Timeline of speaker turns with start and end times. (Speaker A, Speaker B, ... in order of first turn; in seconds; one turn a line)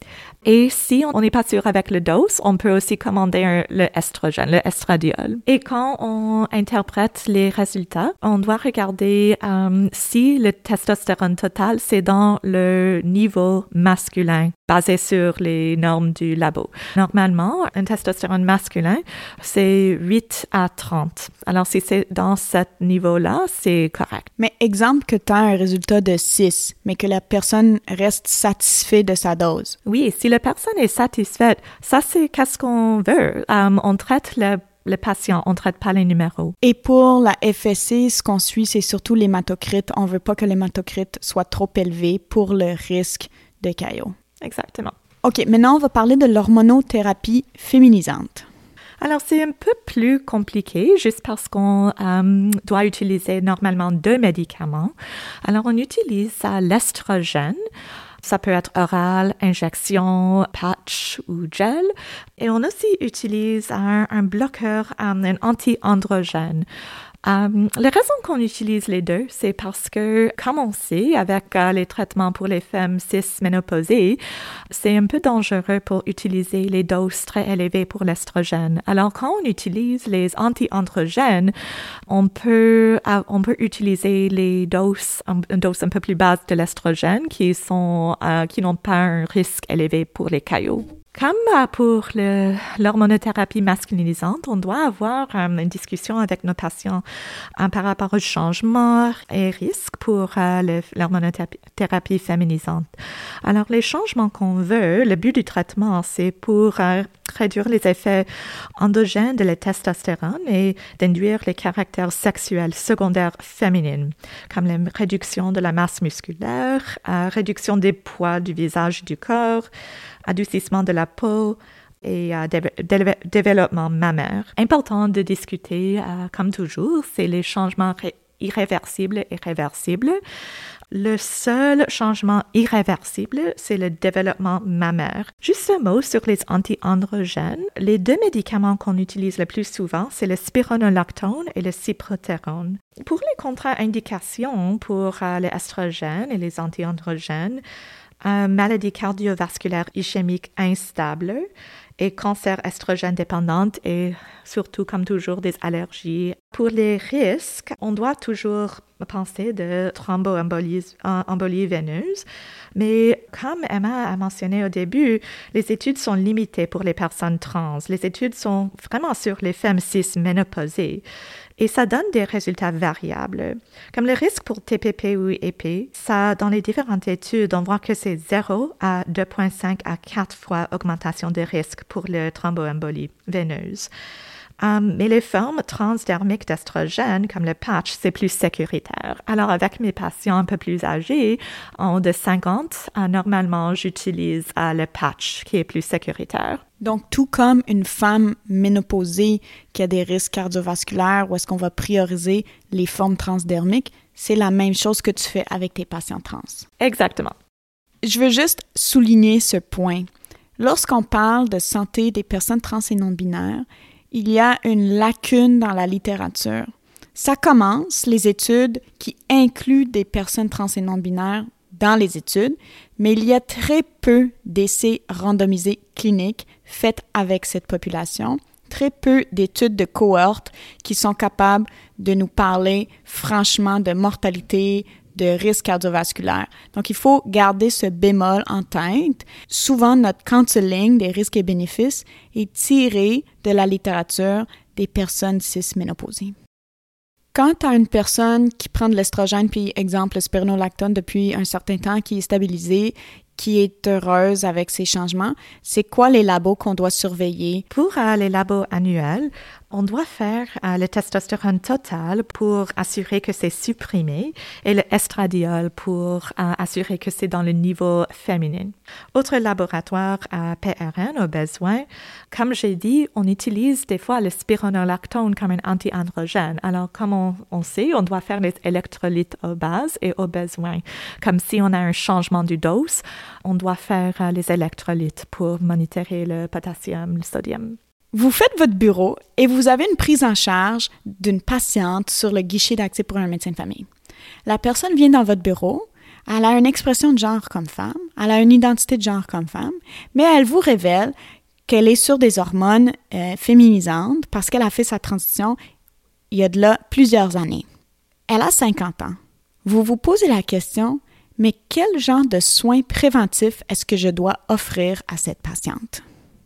Speaker A: 0.4-24.3
Speaker B: 24.4-29.8
Speaker A: 29.9-36.5
Speaker B: 36.6-44.1
Speaker A: 44.4-44.9
Speaker B: 45.2-48.5
Speaker A: 49.0-54.9
Speaker A: 55.4-57.6
Speaker A: 58.2-66.7
Speaker A: 67.2-74.2
Speaker A: 74.7-81.5
Speaker A: 82.1-97.0
Speaker A: 97.6-102.9
Speaker A: 103.4-119.7
Speaker A: 120.3-130.2
Speaker A: 130.9-147.6
Speaker A: 148.2-151.5
Speaker A: 152.0-162.2
Speaker A: 162.8-171.0
Speaker A: 171.6-183.9
Speaker A: 184.6-196.6
Speaker B: 196.8-206.7
Speaker A: 206.8-207.3
Speaker B: 208.0-246.3
Speaker B: 247.3-257.6
Speaker A: 257.7-287.8
Speaker B: 288.1-293.9
Speaker B: 294.4-301.1
Speaker B: 301.7-305.6
Speaker B: 306.3-307.6
Speaker B: 308.3-316.0